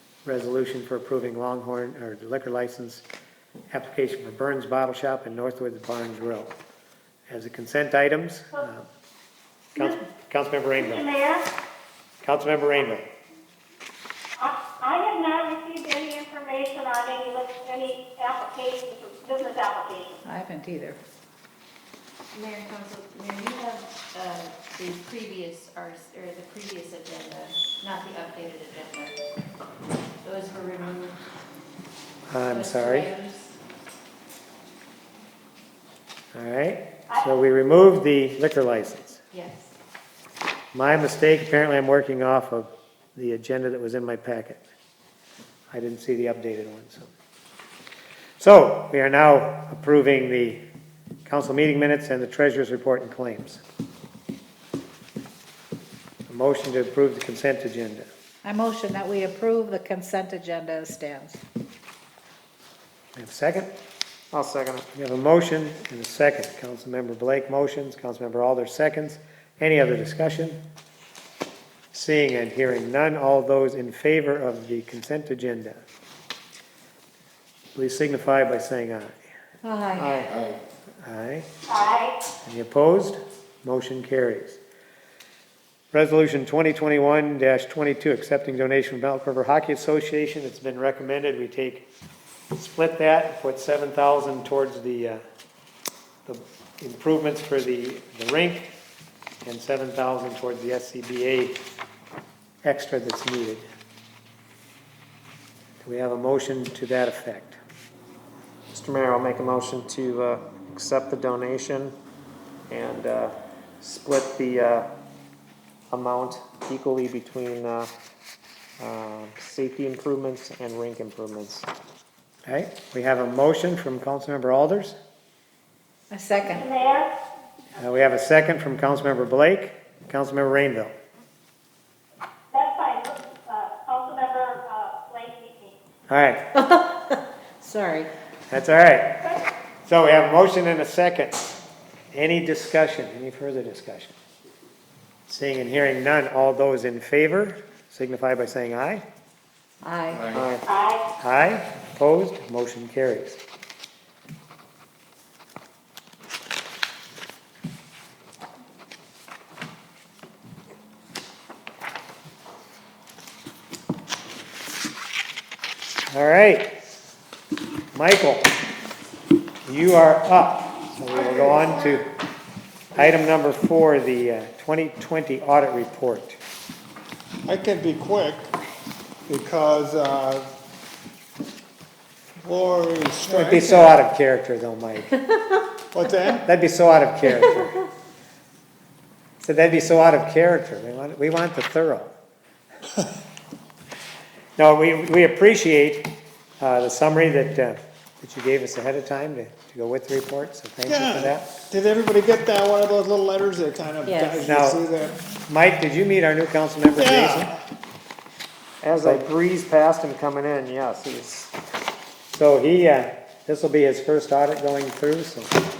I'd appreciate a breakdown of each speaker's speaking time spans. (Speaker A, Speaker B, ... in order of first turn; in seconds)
Speaker A: 0.2-3.0, 3.7-6.5, 7.3-8.9, 9.8-11.1, 12.2-13.1, 32.3-33.1, 36.3-39.2, 40.7-44.6, 45.7-47.1, 48.4-50.6, 51.3-53.6, 56.3-58.1, 63.1-63.7, 64.9-70.6, 71.9-75.8, 77.8-79.2, 81.0-81.5, 82.4-84.6, 85.9-91.8, 92.5-95.2, 96.3-98.7, 99.5-101.6, 102.6-103.7, 105.8-107.6, 122.5-125.0, 127.8-130.9, 136.1-136.4, 138.5-139.2, 139.8-141.4, 142.1-144.2, 145.3-149.0, 151.2-153.4, 166.1-166.7, 167.9-168.5, 169.7-172.1, 172.9-176.4, 183.3-185.2, 186.4-187.9, 189.4-192.1, 194.6-201.5, 204.4-204.8, 205.5-207.5, 209.0-209.3, 212.3-215.6
Speaker B: 10.8-11.4, 14.4-20.2, 81.7-82.2, 126.5-127.1, 132.5-135.8, 150.7-151.0
Speaker C: 20.2-21.0, 58.5-61.4, 79.6-80.3, 126.1-126.7, 136.5-138.1, 149.8-150.3, 204.1-204.4
Speaker D: 22.3-29.1, 30.2-31.2, 32.5-33.6, 39.3-39.7
Speaker E: 64.3-64.9, 108.7-112.0, 112.7-114.9, 115.9-117.9, 118.8-121.7, 150.3-150.6, 208.8-211.5
Speaker F: 171.1-172.0, 177.5-178.5, 179.3-180.5, 182.4-184.0, 185.9-186.5, 200.9-205.2, 206.9-207.6